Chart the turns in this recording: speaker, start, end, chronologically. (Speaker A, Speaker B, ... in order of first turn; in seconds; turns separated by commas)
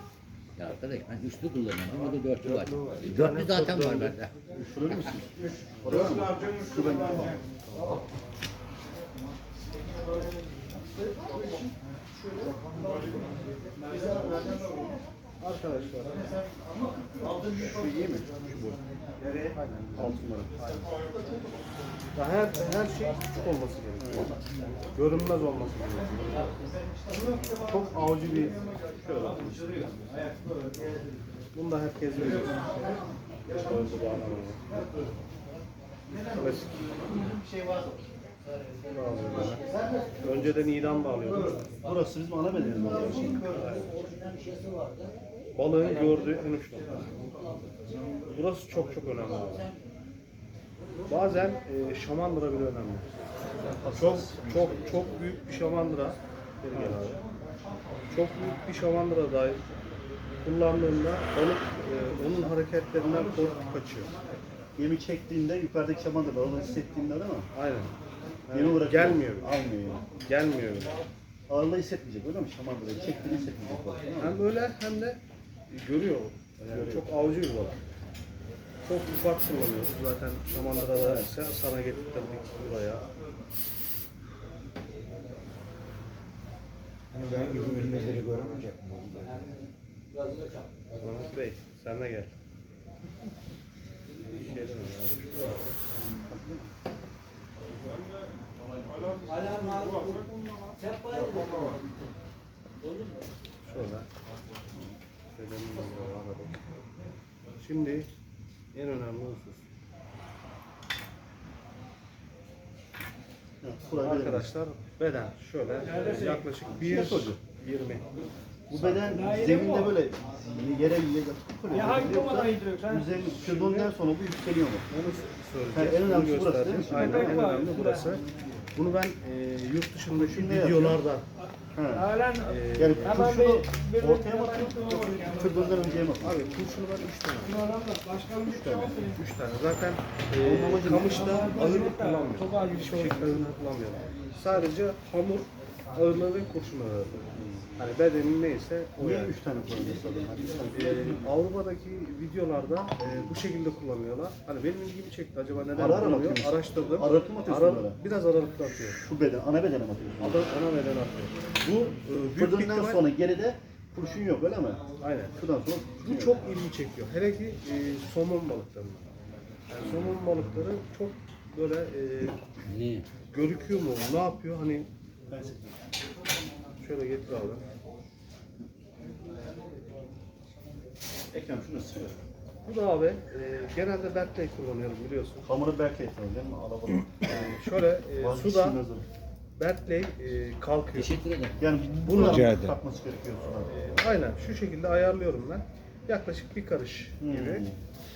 Speaker A: 0.6-4.3, Speaker B: 3.0-4.2, Speaker C: 4.5-7.4, Speaker B: 7.7-8.1, Speaker B: 15.4-16.3, Speaker C: 17.5-18.8, Speaker B: 19.5-20.9, Speaker C: 19.9-20.5, Speaker B: 22.1-24.4, Speaker C: 24.0-24.4, Speaker B: 24.9-26.5, Speaker B: 27.4-28.6, Speaker C: 28.9-30.2, Speaker B: 31.5-34.6, Speaker B: 36.2-37.0, Speaker B: 38.9-39.6, Speaker A: 39.5-40.1, Speaker B: 40.2-41.6, Speaker C: 41.8-43.5, Speaker A: 42.7-45.1, Speaker B: 43.5-43.9, Speaker B: 45.5-47.1, Speaker B: 48.3-49.7, Speaker B: 51.1-53.1, Speaker C: 53.6-54.6, Speaker B: 53.9-57.2, Speaker C: 56.7-57.0, Speaker B: 58.1-59.6, Speaker B: 60.4-64.1, Speaker C: 64.8-67.5, Speaker B: 67.5-67.9, Speaker C: 68.5-70.1, Speaker B: 68.5-69.6, Speaker B: 70.2-71.0, Speaker C: 71.5-74.4, Speaker B: 74.2-77.8, Speaker C: 76.6-77.1, Speaker B: 78.8-83.1, Speaker C: 81.0-81.3, Speaker D: 87.1-89.4, Speaker A: 87.4-88.5, Speaker A: 89.2-91.2, Speaker B: 91.0-92.3, Speaker B: 94.3-95.7, Speaker C: 96.0-96.7, Speaker A: 99.0-102.0, Speaker A: 102.8-103.3, Speaker B: 103.7-104.1, Speaker B: 105.3-106.6, Speaker B: 107.6-108.1, Speaker B: 108.7-109.7, Speaker C: 113.6-114.5, Speaker B: 114.0-118.0, Speaker C: 116.8-117.4, Speaker C: 118.7-124.9, Speaker B: 118.7-119.1, Speaker E: 119.1-120.0, Speaker E: 121.7-123.1, Speaker B: 123.2-123.9, Speaker B: 124.9-128.2, Speaker C: 125.7-127.6, Speaker E: 127.0-128.2, Speaker B: 128.8-131.3, Speaker C: 130.1-131.0, Speaker C: 131.7-132.2, Speaker E: 131.9-135.6, Speaker B: 132.4-133.4, Speaker C: 132.7-136.4, Speaker B: 136.2-137.6, Speaker E: 137.5-139.0, Speaker C: 138.4-139.0, Speaker B: 138.8-147.2, Speaker C: 140.3-141.5, Speaker E: 141.3-143.3, Speaker C: 147.3-147.7, Speaker B: 147.8-149.4, Speaker C: 149.0-151.2, Speaker B: 150.7-159.0, Speaker C: 155.7-158.0, Speaker C: 158.7-160.5, Speaker B: 160.2-163.1, Speaker C: 162.3-164.8, Speaker B: 165.0-165.3, Speaker C: 165.3-166.4, Speaker B: 166.0-169.1, Speaker B: 169.7-172.4, Speaker C: 169.8-170.1, Speaker A: 172.6-173.1, Speaker B: 173.3-174.9, Speaker C: 175.3-175.8, Speaker B: 176.8-177.6, Speaker C: 181.3-182.2, Speaker B: 182.6-185.5, Speaker C: 185.4-187.6, Speaker B: 187.2-188.8, Speaker C: 188.2-189.1, Speaker B: 189.6-191.2, Speaker A: 190.9-192.8, Speaker C: 191.6-193.7, Speaker B: 192.0-192.6, Speaker B: 193.7-197.7, Speaker C: 197.2-197.8